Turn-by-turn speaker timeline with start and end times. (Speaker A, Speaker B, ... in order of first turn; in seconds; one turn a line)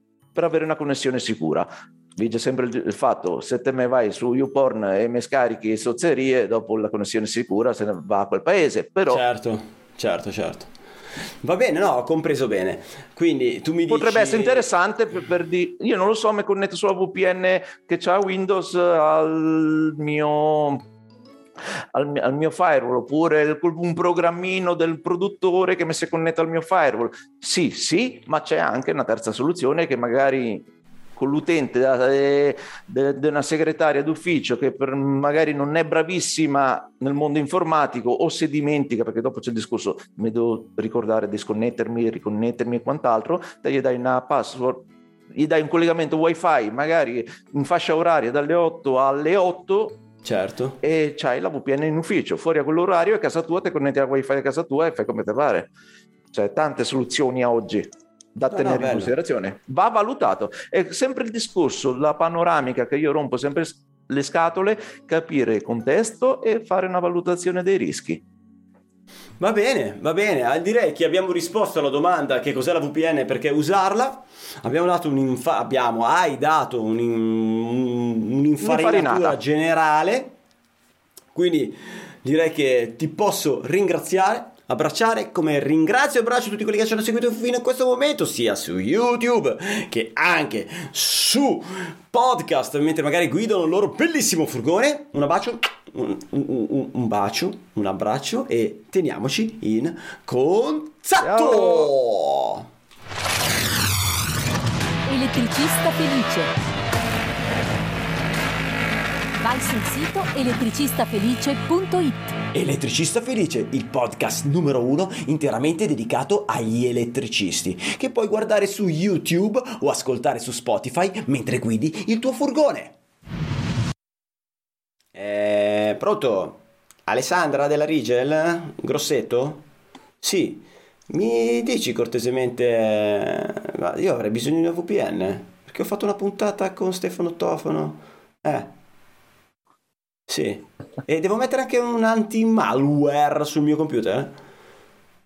Speaker A: 0.3-9.2
Speaker B: 9.1-10.7
Speaker B: 11.4-14.7
Speaker A: 13.9-20.8
Speaker A: 21.9-50.0
Speaker B: 50.2-50.8
Speaker A: 50.8-55.7
Speaker A: 56.3-68.2
Speaker B: 58.5-59.1
Speaker B: 69.4-80.3
Speaker A: 78.6-79.4
Speaker B: 81.3-102.7
Speaker A: 101.2-101.9
Speaker C: 105.1-106.5
Speaker C: 109.4-112.4
Speaker B: 112.5-123.0
Speaker B: 125.1-129.6
Speaker B: 130.2-138.7
Speaker B: 140.3-144.3